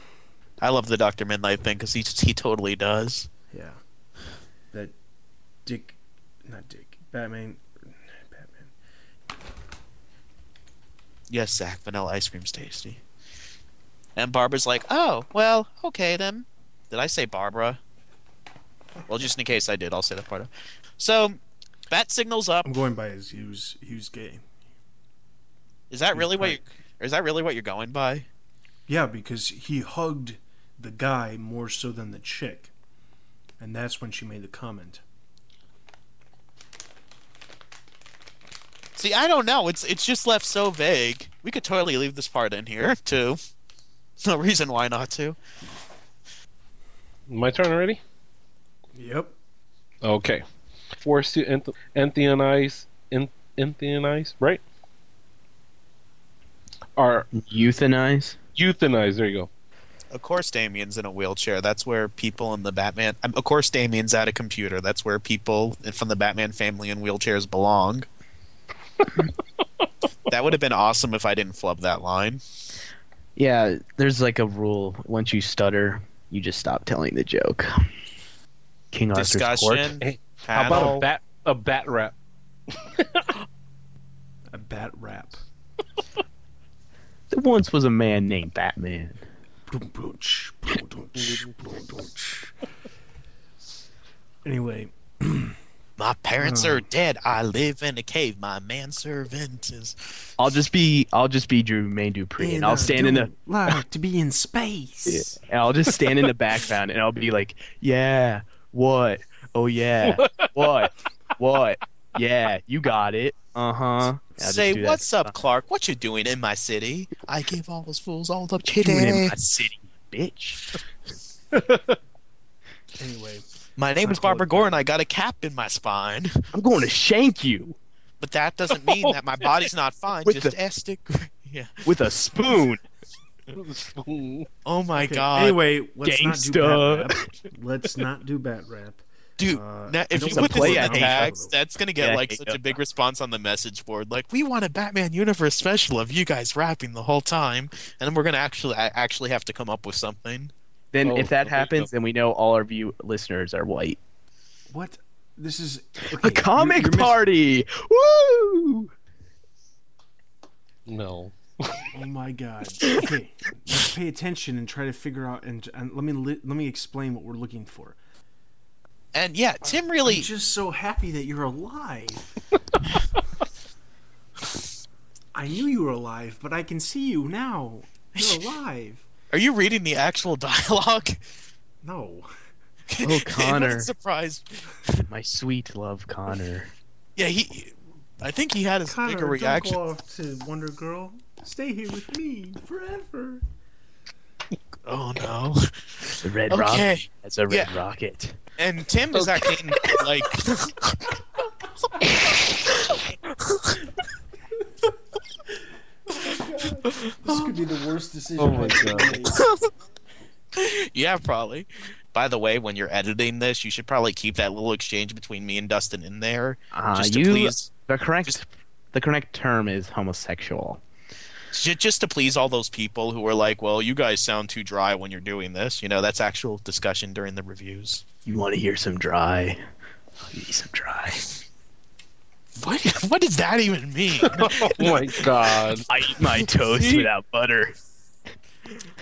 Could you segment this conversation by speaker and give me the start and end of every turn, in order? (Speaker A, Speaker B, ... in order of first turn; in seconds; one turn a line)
Speaker A: 0.6-3.3
Speaker B: 3.5-3.8
Speaker B: 5.6-8.7
Speaker A: 11.3-13.0
Speaker A: 14.2-17.8
Speaker A: 19.1-21.4
Speaker A: 21.9-22.7
Speaker B: 22.6-24.4
Speaker A: 25.9-28.3
Speaker B: 26.1-26.6
Speaker B: 28.9-32.7
Speaker B: 33.6-35.0
Speaker A: 39.0-43.4
Speaker A: 44.2-45.4
Speaker C: 47.3-48.0
Speaker B: 48.9-49.3
Speaker C: 50.0-50.4
Speaker C: 51.0-54.6
Speaker C: 57.0-57.3
Speaker D: 57.3-58.4
Speaker C: 58.5-59.5
Speaker A: 60.1-68.0
Speaker A: 70.3-72.4
Speaker D: 73.4-77.7
Speaker D: 78.9-80.0
Speaker A: 79.1-81.0
Speaker C: 80.0-82.1
Speaker C: 82.9-83.3
Speaker B: 84.5-85.4
Speaker D: 87.3-89.2
Speaker B: 89.7-92.5
Speaker C: 91.2-91.4
Speaker B: 94.4-95.5
Speaker A: 96.0-100.0
Speaker B: 96.4-96.8
Speaker D: 100.4-103.3
Speaker B: 102.4-105.4
Speaker D: 105.1-115.3
Speaker C: 110.1-110.5
Speaker A: 114.4-119.4
Speaker D: 118.8-120.6
Speaker C: 121.5-122.0
Speaker B: 123.0-123.5
Speaker A: 123.8-126.3
Speaker B: 124.0-124.8
Speaker D: 126.5-127.7
Speaker A: 128.2-131.7
Speaker C: 128.8-129.1
Speaker D: 130.2-130.5
Speaker D: 131.9-132.8
Speaker C: 133.5-134.5
Speaker A: 134.6-135.6
Speaker B: 135.0-141.5
Speaker D: 136.0-137.1
Speaker A: 139.4-150.5
Speaker D: 140.1-141.3
Speaker D: 142.0-142.8
Speaker D: 150.9-154.0
Speaker C: 151.0-151.9
Speaker B: 154.7-157.2
Speaker D: 156.2-158.9
Speaker C: 160.9-161.9
Speaker B: 161.9-168.0
Speaker A: 169.1-170.3
Speaker B: 169.7-172.3
Speaker B: 175.3-179.1
Speaker A: 179.3-181.2
Speaker B: 181.8-182.3
Speaker A: 182.9-185.0
Speaker D: 183.0-183.9
Speaker D: 185.1-186.7
Speaker A: 187.2-189.8
Speaker B: 188.9-193.4
Speaker A: 194.9-197.7
Speaker D: 196.2-198.4
Speaker A: 198.6-201.0
Speaker A: 203.4-203.8
Speaker B: 206.1-209.4
Speaker A: 207.1-207.5
Speaker C: 208.4-209.1
Speaker A: 209.2-209.7
Speaker A: 210.6-217.7
Speaker D: 216.7-220.8
Speaker A: 221.5-228.0
Speaker D: 228.2-229.6
Speaker D: 230.2-231.3
Speaker A: 232.6-235.2
Speaker C: 234.4-235.8
Speaker D: 235.9-237.7
Speaker C: 236.7-237.1